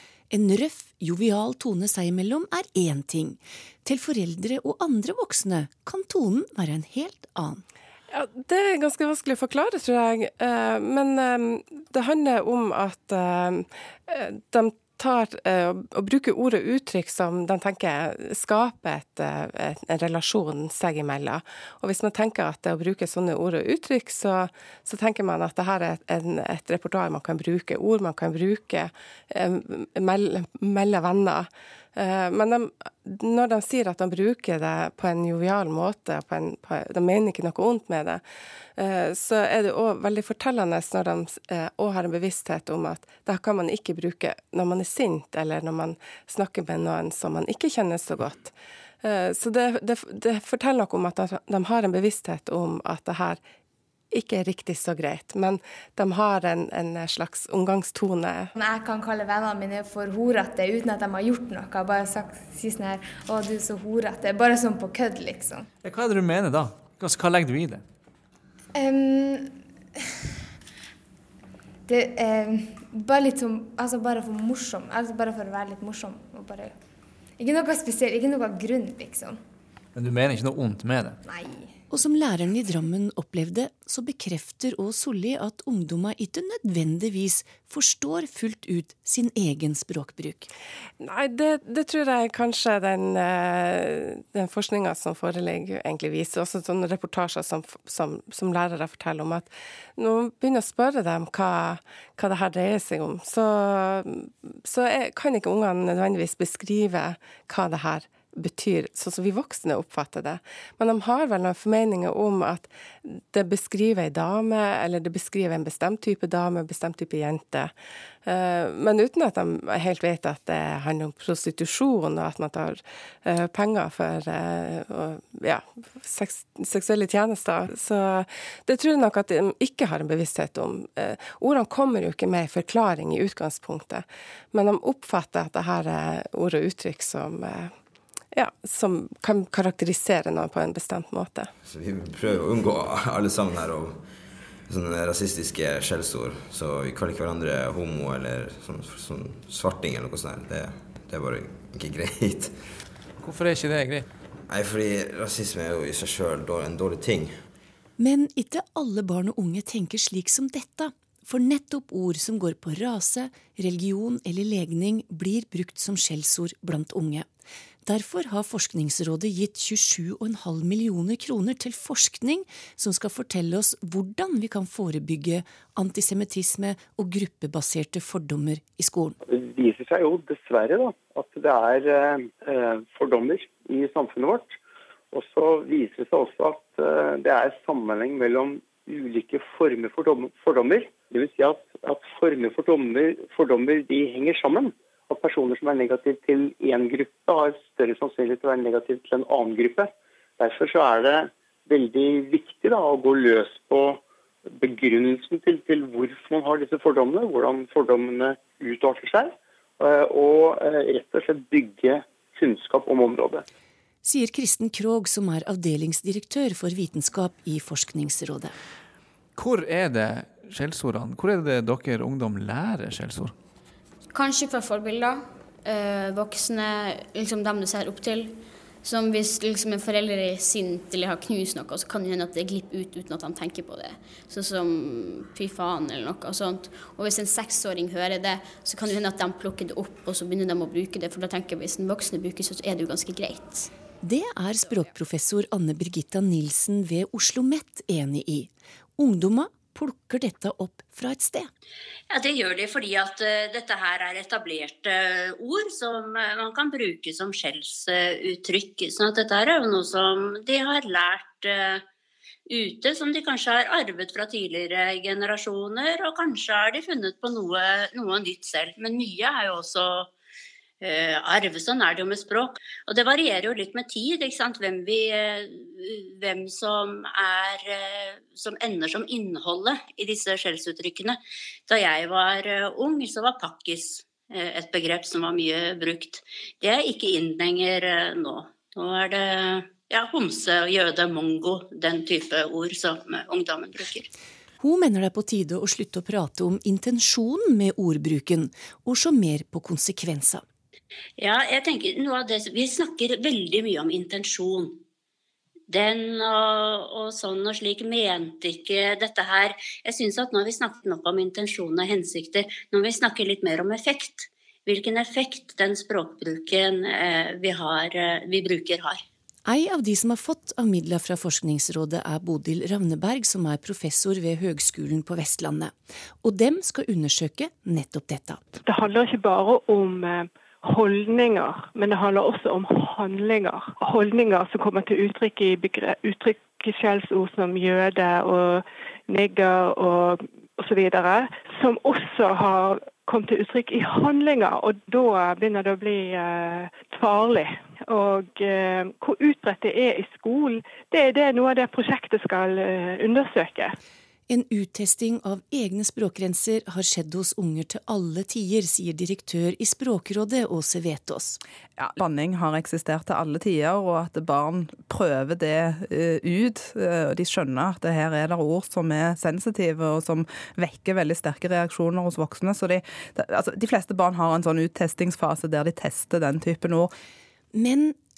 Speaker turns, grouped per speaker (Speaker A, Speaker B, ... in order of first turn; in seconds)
Speaker A: 0.3-7.6, 81.9-90.5, 158.0-167.3, 167.8-179.2, 214.0-218.5, 244.0-251.5, 294.6-300.4, 319.4-328.5, 354.3-361.4, 377.5-378.0
Speaker B: 8.1-38.2, 38.8-53.4, 54.1-58.5, 91.0-137.7, 138.3-141.5
Speaker C: 58.6-65.7, 68.7-69.6, 71.9-76.7, 77.4-79.4, 81.2-81.7
Speaker D: 65.8-67.8, 79.9-81.2, 153.2-154.0, 219.3-223.3
Speaker E: 141.6-144.0, 144.7-152.6, 154.5-157.4
Speaker F: 179.3-184.6, 185.1-204.0, 204.6-213.4
Speaker G: 224.1-243.7
Speaker H: 252.1-261.9, 262.5-270.1, 270.8-294.1, 301.2-304.8, 305.7-319.0
Speaker I: 328.6-353.8
Speaker J: 361.8-376.9